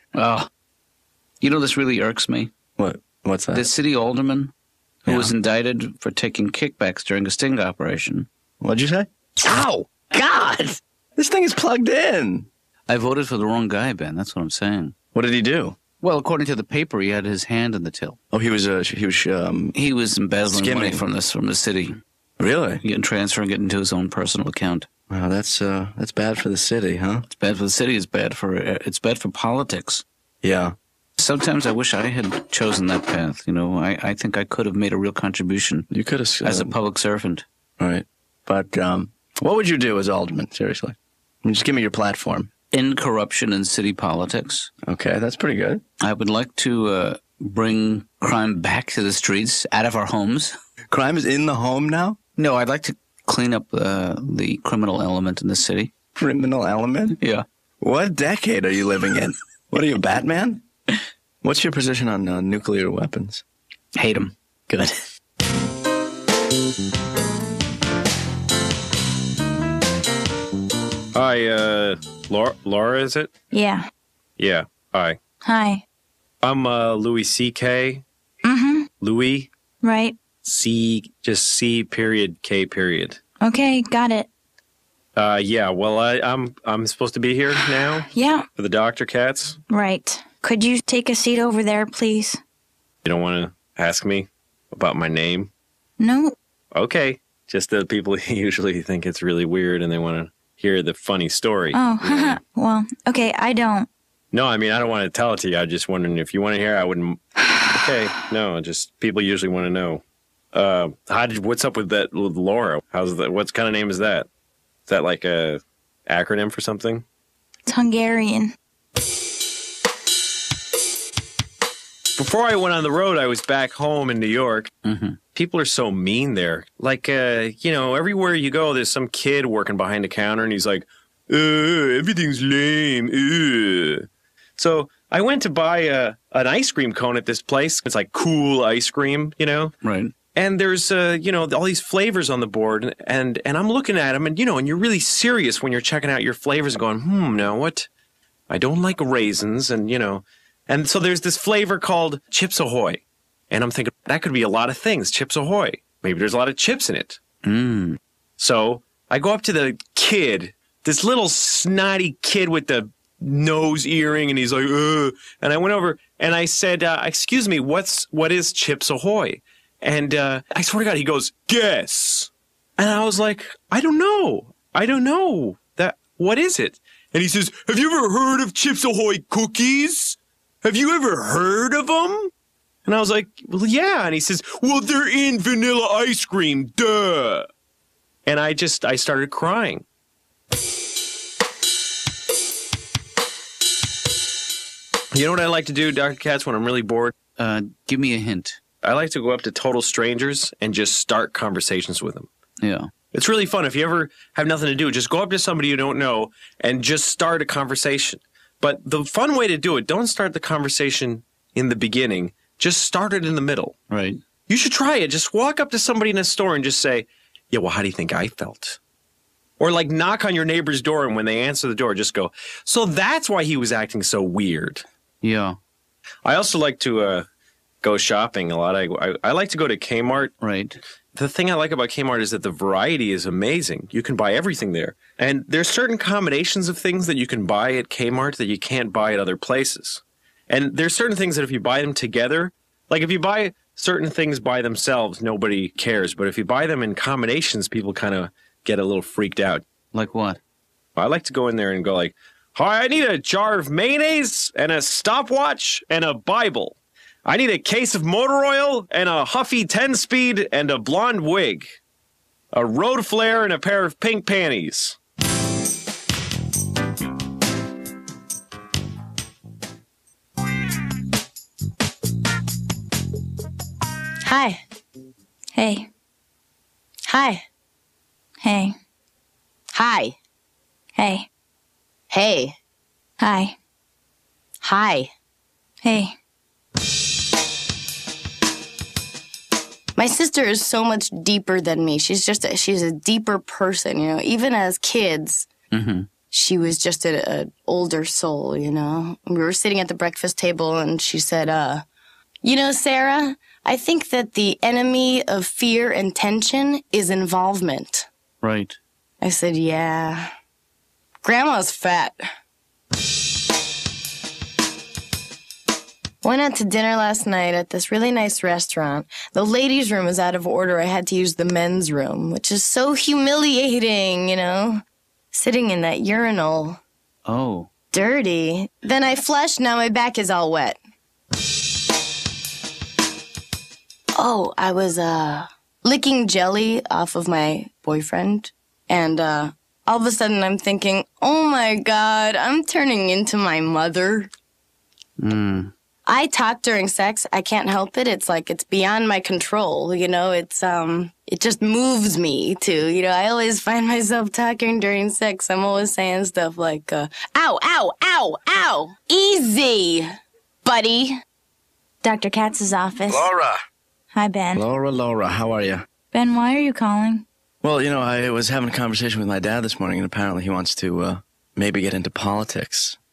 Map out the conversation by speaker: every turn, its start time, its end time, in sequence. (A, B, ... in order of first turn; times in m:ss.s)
0:00.1-0:00.5 A
0:01.4-0:02.5 A
0:02.8-0:03.7 B
0:03.5-0:04.5 A
0:05.0-0:08.3 A
0:05.1-0:05.3 B
0:08.6-0:12.5 B
0:12.9-0:14.9 A
0:15.1-0:15.8 B
0:16.0-0:18.2 A
0:18.3-0:19.7 B
0:19.7-0:22.0 A
0:20.4-0:21.0 B
0:22.4-0:22.8 B
0:22.8-0:24.9 A
0:25.1-0:27.2 B
0:27.3-0:30.0 A
0:30.4-0:30.7 B
0:31.2-0:35.9 A
0:35.9-0:36.7 B
0:36.4-0:37.4 A
0:37.8-0:42.5 B
0:42.7-0:44.7 A
0:44.8-0:45.8 B
0:46.0-0:50.5 A
0:50.9-0:52.2 B
0:52.4-0:55.9 A
0:56.2-0:57.2 B
0:57.2-0:57.4 A
0:57.8-1:00.6 B
1:01.4-1:03.4 B
1:04.0-1:04.3 A
1:04.7-1:05.0 B
1:11.1-1:13.3 C
1:13.5-1:13.8 D
1:14.4-1:15.2 C
1:15.4-1:15.8 D
1:16.4-1:18.0 C
1:18.4-1:18.9 D
1:19.0-1:19.5 C
1:19.8-1:20.2 D
1:20.4-1:23.2 C
1:23.4-1:24.3 D
1:25.2-1:29.6 C
1:27.8-1:28.4 D
1:29.7-1:32.4 D
1:33.0-1:35.5 C
1:36.0-1:36.4 D
1:36.7-1:42.4 C
1:41.7-1:43.9 D
1:44.3-1:50.0 C
1:50.5-1:54.3 C
1:54.9-1:57.0 C
1:57.7-1:58.5 D
2:02.2-2:04.7 C
2:04.8-2:05.2 A
2:05.3-2:14.1 C
2:14.6-2:19.7 C
2:19.8-2:20.1 A
2:20.3-2:27.9 C
2:28.5-2:37.2 C
2:37.4-2:38.0 A
2:38.4-3:02.3 C
3:02.8-3:07.5 C
3:08.2-3:09.8 C
3:15.1-3:17.1 C
3:17.4-3:18.6 A
3:18.8-3:22.3 C
3:22.6-3:22.9 A
3:23.1-3:33.8 C
3:33.9-3:34.2 A
3:34.5-3:38.8 C
3:39.6-3:44.8 C
3:45.2-3:45.6 A
3:46.2-3:47.3 C
3:47.8-3:50.3 C
3:50.4-3:50.8 A
3:51.1-4:09.6 C
4:09.9-4:10.4 A
4:11.0-4:21.8 C
4:22.5-4:25.0 C
4:34.2-4:34.6 E
4:35.5-4:35.9 D
4:37.0-4:37.4 E
4:38.4-4:38.7 D
4:39.7-4:40.2 E
4:41.0-4:41.3 D
4:42.1-4:42.6 E
4:43.2-4:43.6 D
4:44.6-4:45.1 E
4:45.8-4:46.1 D
4:50.0-4:55.5 E
4:55.7-4:56.1 A
4:56.3-5:01.8 E
5:02.4-5:08.1 E
5:08.4-5:08.8 A
5:09.2-5:10.3 E
5:11.2-5:12.2 E
5:16.2-5:24.8 E
5:25.3-5:26.8 E
5:27.2-5:27.7 A
5:27.9-5:30.8 E
5:34.2-5:44.3 E
5:45.2-5:45.7 A
5:46.0-6:00.1 E
6:00.6-6:01.2 E
6:02.0-6:03.3 D
6:03.1-6:03.6 B
6:04.1-6:04.6 D
6:04.5-6:05.8 B
6:06.1-6:07.2 D
6:07.6-6:13.0 B